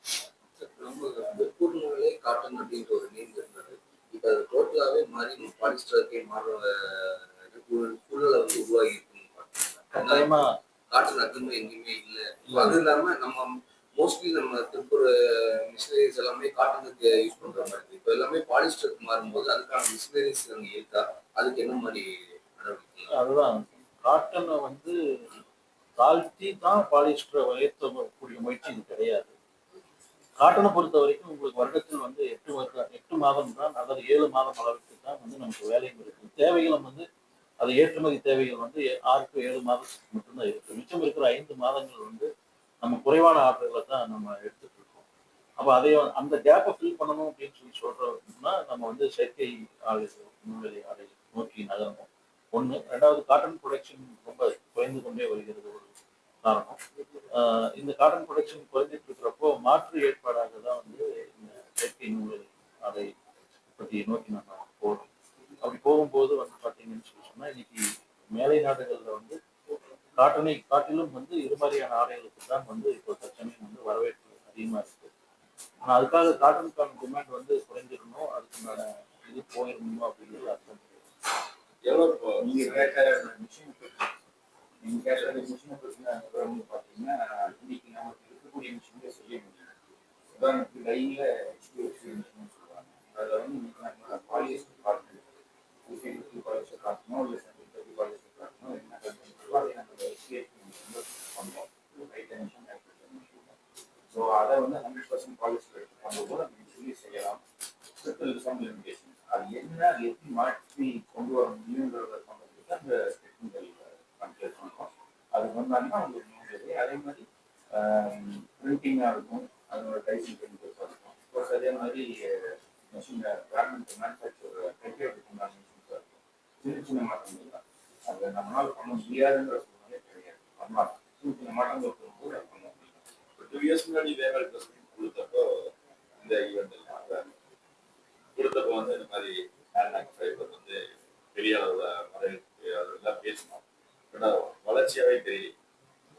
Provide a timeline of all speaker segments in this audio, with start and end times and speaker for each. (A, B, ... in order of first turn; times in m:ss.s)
0:00.6-0:10.4 A
0:09.9-0:10.5 B
0:10.9-0:23.0 A
0:12.5-0:12.8 B
0:23.1-0:24.9 B
0:26.0-0:29.3 B
0:30.4-0:37.0 B
0:37.6-0:42.3 B
0:42.8-0:45.0 B
0:45.6-0:55.9 B
0:56.4-0:56.8 B
0:57.3-1:03.1 B
1:03.8-1:05.0 B
1:05.6-1:09.4 B
1:10.2-1:15.1 B
1:15.8-1:20.9 B
1:22.3-1:24.1 C
1:24.8-1:29.7 C
1:30.4-1:35.2 C
1:35.8-1:43.5 C
1:44.1-1:47.4 C
1:48.0-1:57.2 C
1:57.8-2:12.9 C
2:13.4-2:15.5 D
2:16.3-2:16.8 D
2:18.4-2:20.8 D
2:21.3-2:23.6 D
2:24.1-2:25.5 D